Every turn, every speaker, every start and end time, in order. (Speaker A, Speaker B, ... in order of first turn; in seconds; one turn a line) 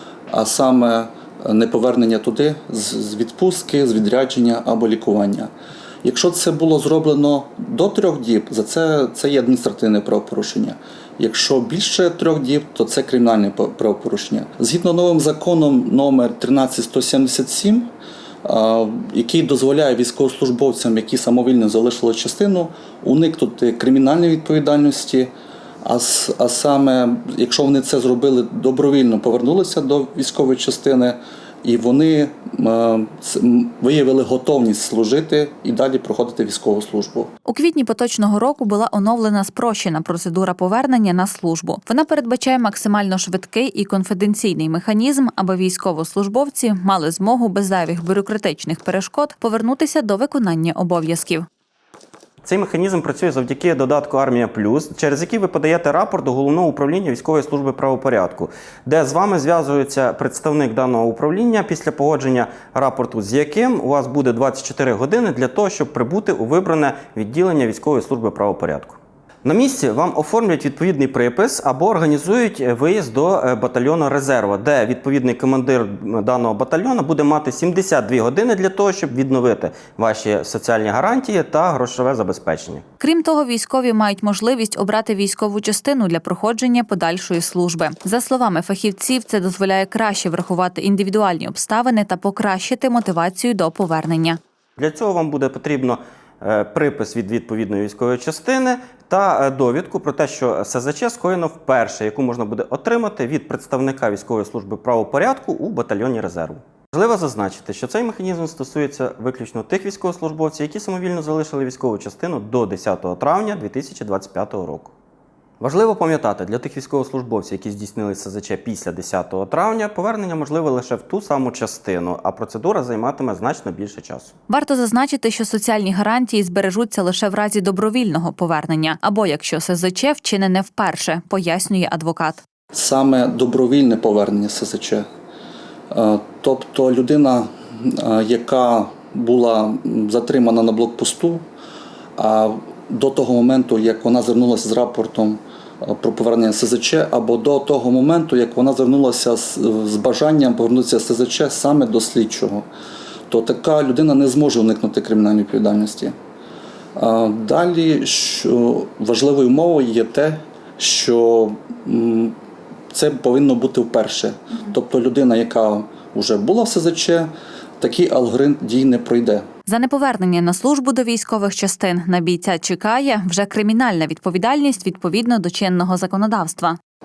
Speaker A: 0.3-5.5
Speaker A: 6.0-17.9
Speaker A: 18.4-25.3
Speaker A: 25.8-37.3
Speaker B: 37.5-51.5
Speaker C: 52.4-82.8
Speaker B: 83.0-94.4
Speaker C: 94.8-114.9
Speaker C: 115.6-124.3
Speaker B: 124.5-132.4
Speaker A: 132.7-135.1
Speaker A: 135.9-141.4
Speaker A: 142.2-152.7
Speaker A: 153.3-156.2
Speaker A: 157.0-162.3
Speaker A: 162.9-169.5
Speaker B: 169.7-176.8